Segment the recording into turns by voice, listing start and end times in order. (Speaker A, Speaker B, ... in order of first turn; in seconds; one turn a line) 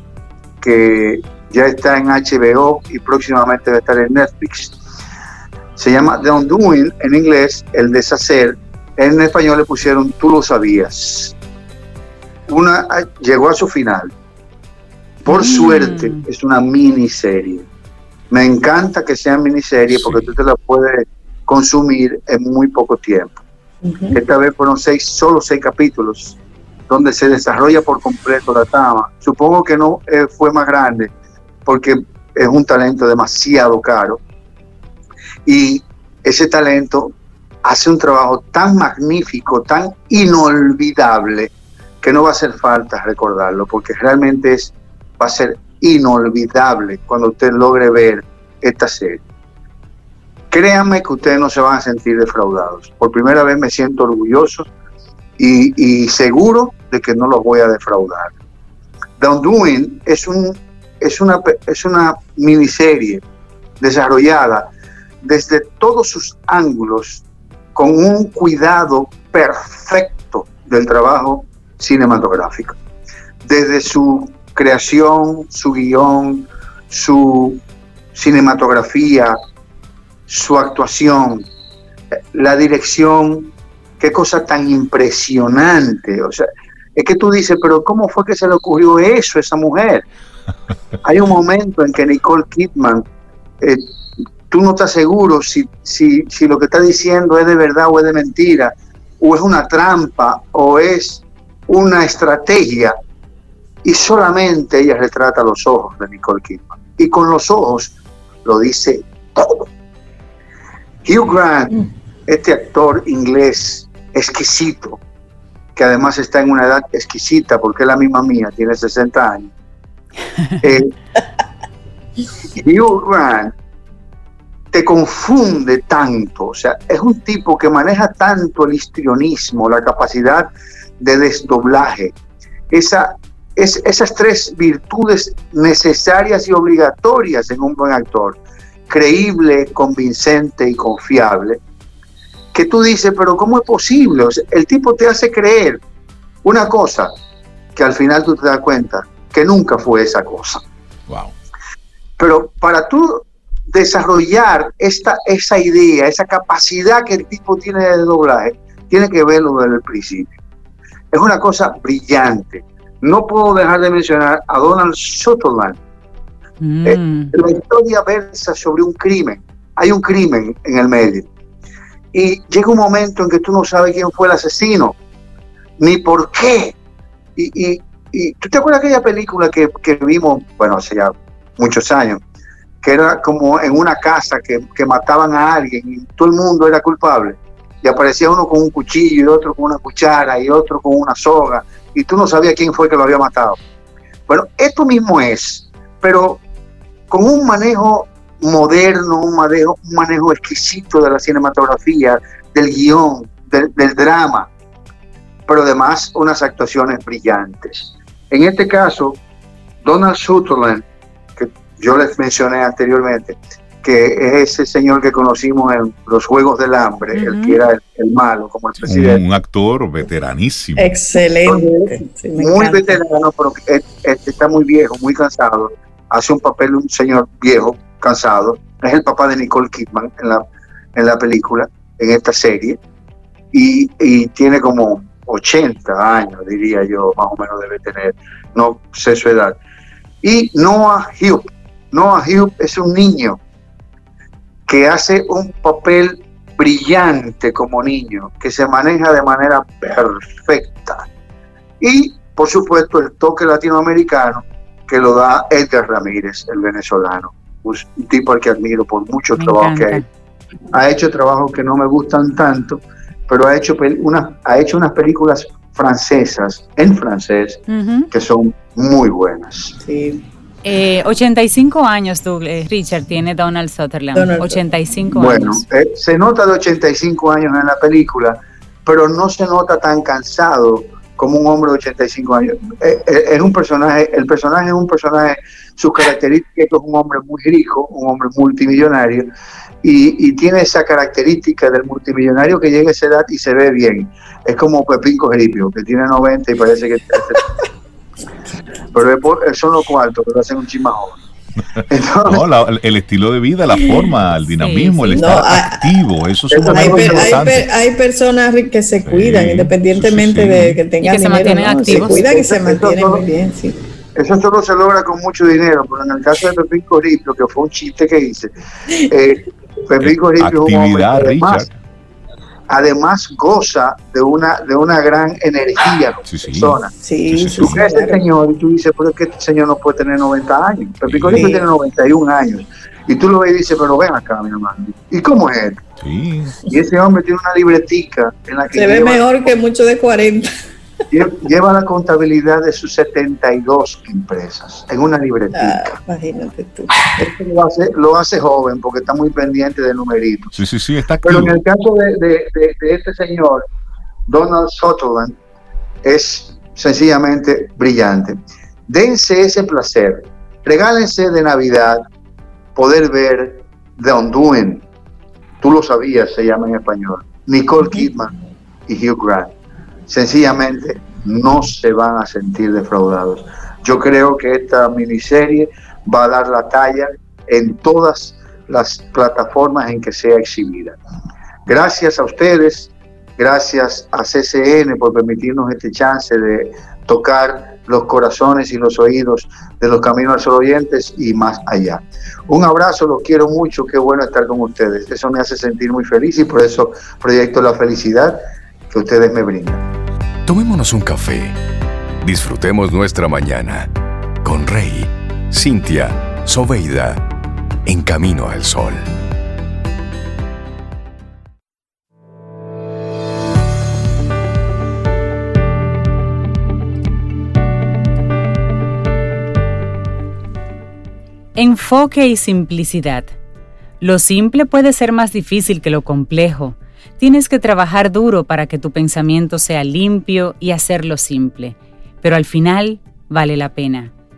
Speaker A: 0.6-4.8
Speaker A: 5.8-11.3
Speaker A: 12.5-14.1
Speaker A: 15.2-17.7
Speaker B: 15.3-16.2
Speaker A: 18.3-23.4
Speaker C: 23.8-24.2
Speaker A: 24.1-26.4
Speaker A: 26.9-31.1
Speaker A: 31.6-34.2
Speaker A: 35.5-49.2
Speaker A: 50.5-54.7
Speaker A: 55.4-58.3
Speaker A: 59.2-63.2
Speaker A: 63.8-64.7
Speaker A: 65.2-67.2
Speaker A: 67.7-72.8
Speaker A: 73.4-77.6
Speaker A: 78.1-79.4
Speaker A: 80.3-81.5
Speaker A: 82.3-90.0
Speaker A: 91.0-93.0
Speaker A: 94.5-103.0
Speaker A: 103.8-107.9
Speaker A: 108.4-109.7
Speaker A: 111.0-115.0
Speaker A: 115.8-119.5
Speaker A: 120.6-120.9
Speaker A: 122.5-123.5
Speaker A: 124.7-130.5
Speaker A: 131.0-132.1
Speaker A: 132.7-141.6
Speaker A: 142.5-145.8
Speaker A: 146.4-147.1
Speaker A: 147.8-150.6
Speaker D: 151.1-151.3
Speaker A: 152.2-160.3
Speaker A: 161.1-165.8
Speaker B: 166.6-167.3
Speaker A: 166.8-171.3
Speaker A: 172.1-174.9
Speaker A: 175.8-176.8
Speaker A: 177.4-182.2
Speaker A: 182.8-193.6
Speaker A: 194.3-196.4
Speaker A: 197.1-204.5
Speaker A: 205.5-209.2
Speaker A: 209.8-210.8
Speaker A: 211.4-219.2
Speaker B: 217.1-217.6
Speaker D: 218.8-220.9
Speaker C: 220.8-223.0
Speaker A: 221.5-230.4
Speaker A: 230.9-232.8
Speaker A: 233.5-239.6
Speaker A: 240.2-243.4
Speaker A: 244.7-251.1
Speaker A: 251.8-260.0
Speaker B: 259.4-260.1
Speaker A: 260.7-269.8
Speaker B: 267.7-268.1
Speaker C: 269.8-270.2
Speaker B: 270.6-275.6
Speaker C: 274.1-275.2
Speaker A: 275.1-289.3
Speaker A: 289.8-297.6
Speaker A: 298.9-301.2
Speaker A: 301.9-302.4
Speaker D: 302.3-307.7
Speaker B: 304.6-305.4
Speaker C: 305.1-306.0
Speaker A: 306.5-307.4
Speaker C: 306.5-313.8
Speaker D: 309.0-310.8
Speaker B: 311.0-312.2
Speaker A: 311.9-313.2
Speaker A: 314.1-321.6
Speaker D: 320.0-321.7
Speaker A: 322.7-326.9
Speaker D: 326.2-326.8
Speaker C: 327.0-328.2
Speaker D: 327.3-327.9
Speaker A: 327.6-335.8
Speaker D: 331.1-331.5
Speaker C: 331.3-331.7
Speaker D: 336.0-336.6
Speaker A: 336.6-339.5
Speaker C: 338.7-340.5
Speaker A: 341.1-346.0
Speaker C: 345.5-347.0
Speaker A: 347.1-350.6
Speaker D: 350.5-351.6
Speaker A: 351.2-353.6
Speaker A: 354.3-355.4
Speaker A: 356.0-362.0
Speaker A: 362.8-364.8
Speaker A: 365.6-368.3
Speaker A: 368.9-369.5
Speaker A: 370.1-381.0
Speaker A: 381.6-398.4
Speaker A: 398.9-399.8
Speaker E: 400.4-401.6
Speaker E: 402.2-403.9
Speaker E: 404.4-407.2
Speaker E: 407.9-409.1
Speaker B: 421.5-423.3
Speaker B: 424.0-434.1